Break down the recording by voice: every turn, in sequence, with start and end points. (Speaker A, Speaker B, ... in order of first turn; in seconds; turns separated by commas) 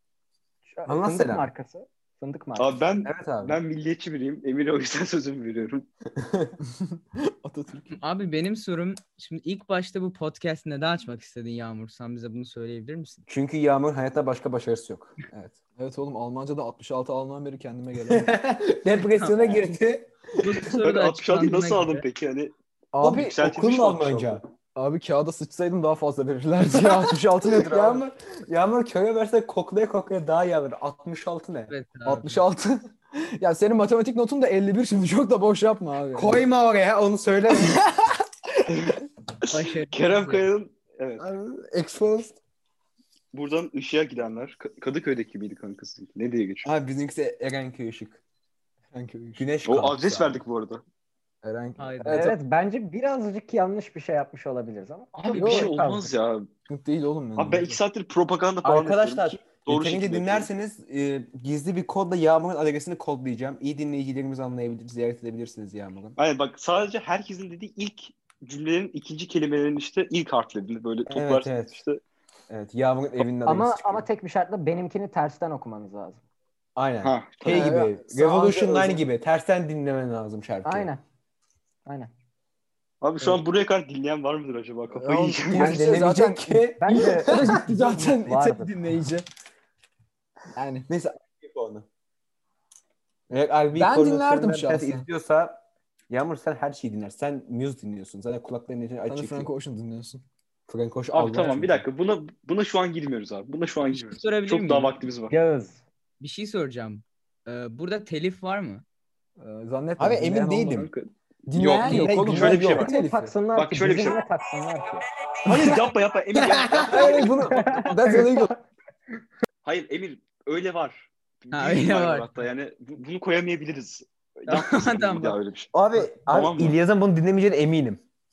Speaker A: 0.7-2.8, Speaker B: 0.9-1.5, Speaker C: 2.6-5.9, Speaker B: 3.0-3.6, Speaker B: 6.2-6.6, Speaker D: 6.8-8.0, Speaker E: 7.9-13.2, Speaker B: 13.3-15.6, Speaker D: 15.8-18.3, Speaker B: 18.1-20.1, Speaker E: 19.1-19.6, Speaker E: 20.4-22.1, Speaker C: 20.8-24.4, Speaker D: 22.9-23.4, Speaker B: 23.0-24.4, Speaker D: 24.8-28.0, Speaker B: 26.7-31.7, Speaker E: 31.7-32.4, Speaker D: 32.0-36.4, Speaker B: 36.1-37.9, Speaker C: 38.7-41.3, Speaker E: 39.5-40.5, Speaker B: 41.2-42.4, Speaker C: 43.3-46.7, Speaker B: 46.6-48.2, Speaker D: 48.9-49.5, Speaker B: 49.4-50.4, Speaker C: 49.6-50.8, Speaker D: 51.4-52.4, Speaker E: 51.8-52.3, Speaker A: 52.1-56.1, Speaker C: 55.1-56.5, Speaker D: 55.4-55.7, Speaker D: 56.7-57.8, Speaker C: 57.4-60.5, Speaker B: 58.6-66.2, Speaker C: 66.2-72.0, Speaker B: 71.1-71.8, Speaker B: 72.5-74.1, Speaker A: 73.5-76.2, Speaker B: 76.8-80.9, Speaker C: 77.0-77.8, Speaker D: 77.5-79.0, Speaker A: 80.7-81.0, Speaker A: 81.9-82.1, Speaker C: 83.0-85.9, Speaker D: 84.9-89.2, Speaker B: 85.5-87.6, Speaker A: 86.8-88.7, Speaker D: 90.5-90.9, Speaker B: 90.9-91.9, Speaker B: 93.3-99.5, Speaker D: 93.8-95.1, Speaker D: 99.1-100.2, Speaker B: 100.7-101.8, Speaker C: 101.1-105.3, Speaker E: 103.9-105.0, Speaker A: 105.3-105.8, Speaker E: 106.2-108.8, Speaker D: 109.4-110.8, Speaker B: 110.0-110.9, Speaker C: 110.7-112.9, Speaker D: 111.5-113.4, Speaker B: 111.8-112.9, Speaker A: 112.7-115.0, Speaker C: 113.5-114.2, Speaker C: 115.5-117.8, Speaker B: 116.4-118.5, Speaker A: 117.5-118.6, Speaker C: 119.6-126.8, Speaker E: 121.5-122.4, Speaker E: 124.5-125.4, Speaker B: 125.7-128.0